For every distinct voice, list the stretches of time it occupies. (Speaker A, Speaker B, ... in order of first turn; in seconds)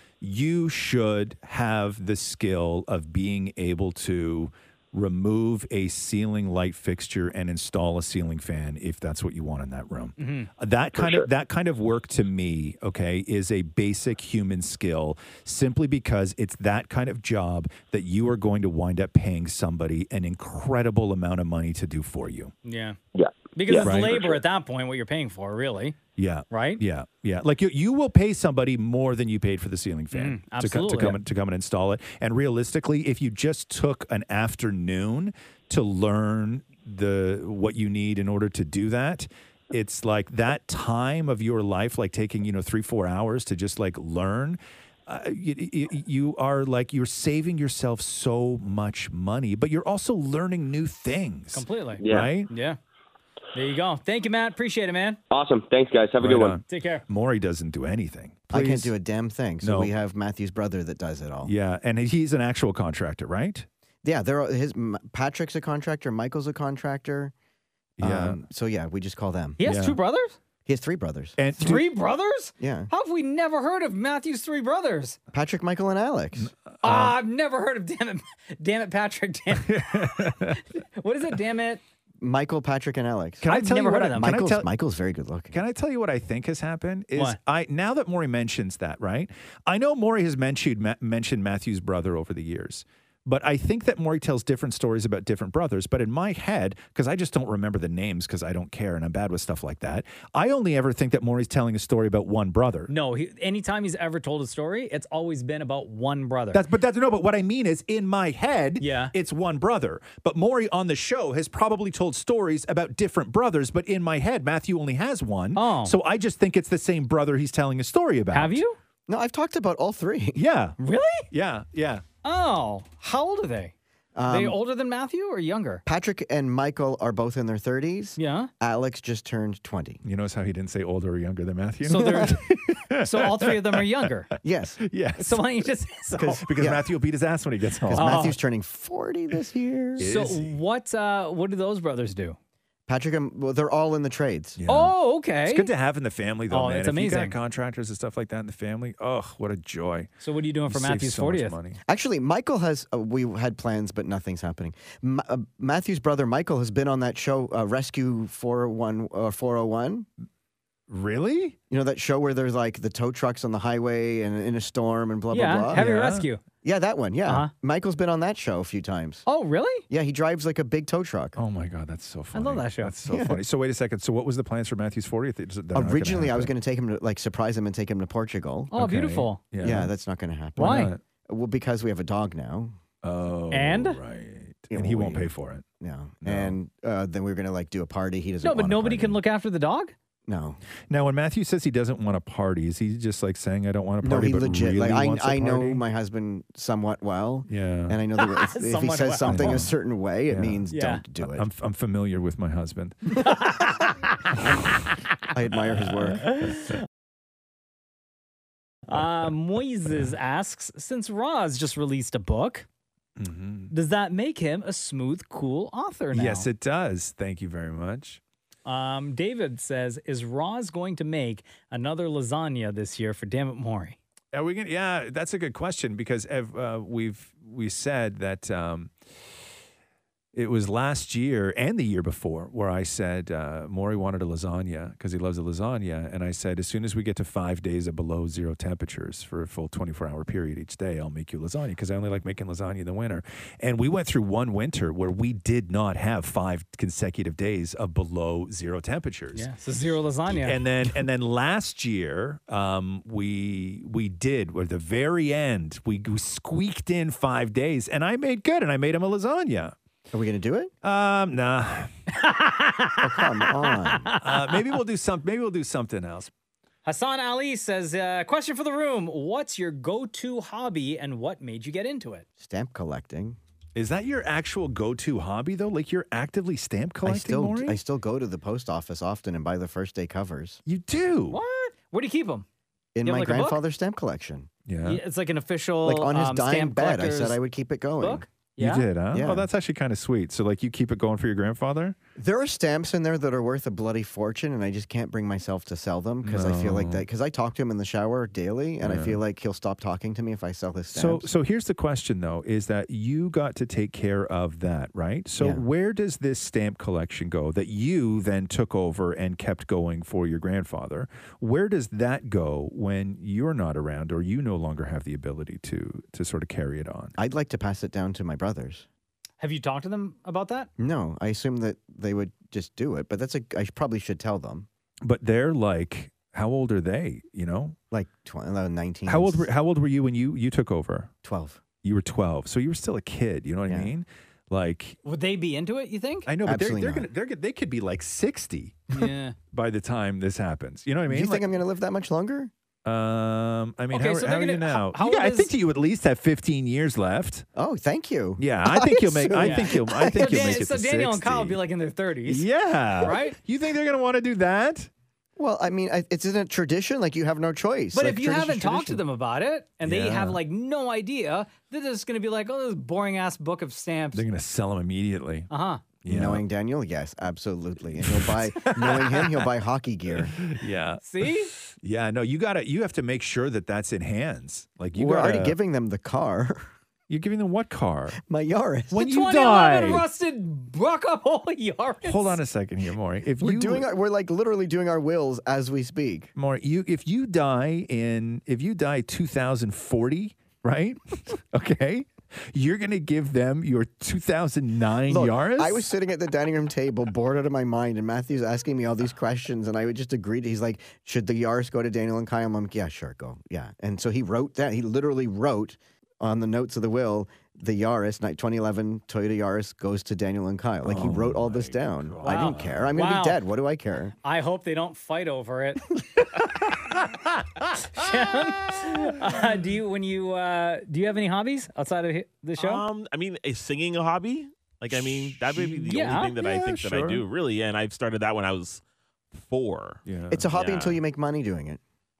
Speaker A: 0.2-22.5, 23.7-24.2, 26.2-52.5, 56.2-58.9, 59.6-59.9, 61.4-63.7, 68.0-68.4, 69.6-70.0, 71.4-71.9, 76.4-77.2, 79.5-80.6, 83.4-84.7, 85.5-102.9, 106.5-118.6, 120.3-120.8, 121.3-122.0, 130.0-134.1, 134.8-135.7, 136.4-138.3, 140.0-140.6, 144.6-150.1, 150.7-151.8, 160.9-161.6, 165.7-166.3, 171.3-176.5, 178.7-179.9, 180.6-181.0, 183.0-185.6, 186.2-186.6, 190.9-195.8, 197.5-198.0, 199.2-199.8, 200.3-200.6, 201.2-203.3, 205.7-206.4, 213.2-213.7, 216.1-218.2, 224.3-228.9, 230.3-249.5, 250.2-259.7, 260.8-261.9, 264.2-266.3, 273.7-277.8, 280.6-281.4, 284.6-285.0, 288.6-292.0, 296.2-297.1, 298.8-299.2, 300.9-317.1, 325.0-327.8, 329.1-331.1, 331.8-335.0, 336.2-338.9, 339.5-341.5, 342.8-347.5, 348.4-351.6, 352.2-354.9, 359.8-360.4, 364.1-365.5, 366.0-366.4, 367.9-369.4, 370.1-375.6, 377.1-378.2, 378.9-380.1, 382.0-383.9, 386.4-395.9, 410.8-412.9, 416.8-418.9, 424.9-427.2, 430.0-430.5
Speaker B: 10.2-10.5, 22.6-23.0, 23.5-26.0, 26.5-26.8, 30.1-31.2, 51.5-52.8, 53.5-55.2, 56.6-57.0, 69.6-70.4, 71.6-75.2, 76.8-81.8, 83.5-84.4, 102.9-106.6, 108.8-109.1, 115.5-116.0, 118.3-118.8, 120.8-121.3, 122.2-123.7, 124.3-125.8, 128.2-128.5, 131.8-132.4, 133.0-134.3, 135.2-136.4, 137.9-138.3, 140.0-142.4, 144.7-145.7, 146.5-147.3, 150.2-151.6, 165.3-166.4, 169.2-169.8, 172.3-172.9, 178.7-179.4, 180.6-180.9, 183.5-184.0, 188.4-189.9, 198.3-199.6, 200.7-201.0, 203.2-204.6, 206.3-206.8, 208.9-212.7, 213.7-216.5, 218.7-224.0, 249.3-250.9, 262.1-264.6, 266.8-272.2, 281.3-282.4, 283.0-283.6, 284.8-287.4, 288.0-288.9, 319.4-320.7, 335.0-336.3, 338.9-339.4, 343.9-345.5, 349.4-352.5, 353.0-353.4, 357.9-364.2, 365.5-365.8, 371.0-371.5, 378.9-382.4, 412.2-413.4, 414.2-415.8, 417.7-422.8, 425.9-426.3
Speaker C: 10.9-11.2, 23.1-24.3, 52.0-52.3, 55.3-56.6
Speaker D: 58.5-61.5, 64.0-67.3, 68.0-69.6, 70.7-71.4, 72.6-72.9, 75.3-76.5, 82.2-83.5, 84.1-85.6, 119.1-120.4, 124.1-124.6, 125.8-130.0, 132.0-132.3, 134.4-134.8, 136.2-136.8, 137.8-140.1, 142.9-144.6, 151.9-160.1, 161.7-165.8, 166.6-169.2, 169.9-171.4, 173.1-173.4, 175.7-178.7, 179.6-182.8, 184.7-189.2, 190.3-190.6, 194.0-201.4, 205.3-206.4, 260.1-260.7, 263.0-264.1, 272.4-273.4, 277.0-280.6, 282.9-284.5, 285.8-288.2, 289.1-289.5, 292.2-301.3, 317.2-318.9, 320.8-324.7, 327.9-329.5, 331.2-331.6, 336.4-337.1, 341.1-342.5, 347.6-350.6, 355.4-359.0, 366.1-370.5, 374.9-376.6, 378.2-379.0, 383.4-386.3, 395.1-414.1, 430.3-431.8
Speaker E: 422.6-428.8, 429.3-431.0